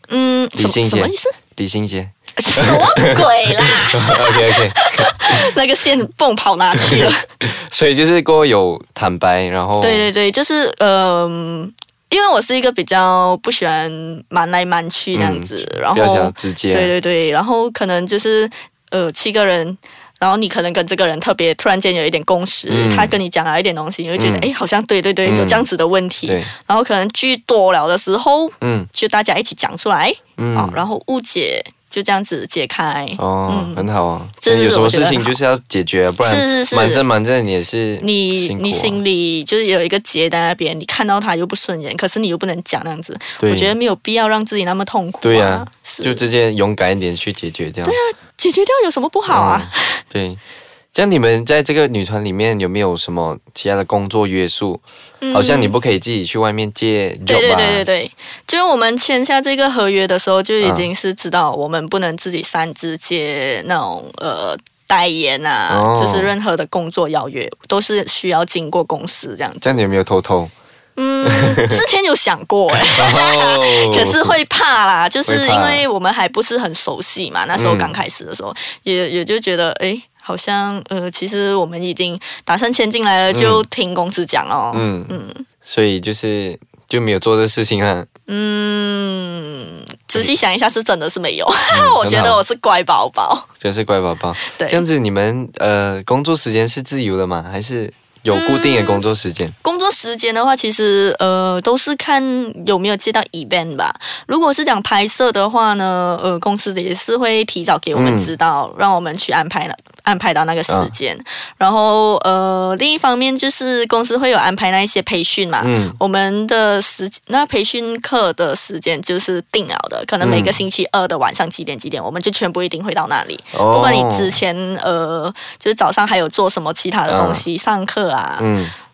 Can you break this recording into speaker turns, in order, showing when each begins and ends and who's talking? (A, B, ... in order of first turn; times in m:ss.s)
0:00.1-0:01.4 A
0:00.6-0:05.1 B
0:02.4-0:07.2 A
0:06.8-0:10.1 B
0:09.8-0:33.9 A
0:15.1-0:16.9 B
0:22.7-0:23.2 B
0:24.2-0:24.5 B
0:25.2-0:25.6 B
0:26.2-0:26.5 B
0:28.6-0:28.9 B
0:30.4-0:30.8 B
0:33.2-0:39.0 B
0:34.4-0:35.4 A
0:36.2-0:37.0 A
0:38.0-0:46.3 A
0:43.4-0:43.7 B
0:45.2-0:48.0 B
0:47.8-0:50.0 A
0:49.3-0:50.4 B
0:50.9-0:54.8 B
0:55.2-0:55.7 A
0:55.3-0:57.8 B
0:57.2-1:09.8 A
1:00.6-1:00.9 B
1:05.7-1:06.3 B
1:09.6-1:10.5 B
1:11.0-1:25.4 A
1:11.2-1:11.8 B
1:12.8-1:14.4 B
1:15.2-1:15.8 B
1:17.5-1:18.0 B
1:23.3-1:23.6 B
1:24.7-1:28.1 B
1:28.3-1:33.5 A
1:31.7-1:32.4 B
1:33.6-1:39.5 B
1:34.4-1:34.8 A
1:38.3-1:39.0 A
1:39.6-2:08.5 A
1:47.9-1:48.3 B
1:55.6-1:56.0 B
2:00.2-2:00.6 B
2:03.5-2:04.4 B
2:07.1-2:07.4 B
2:08.4-2:08.7 B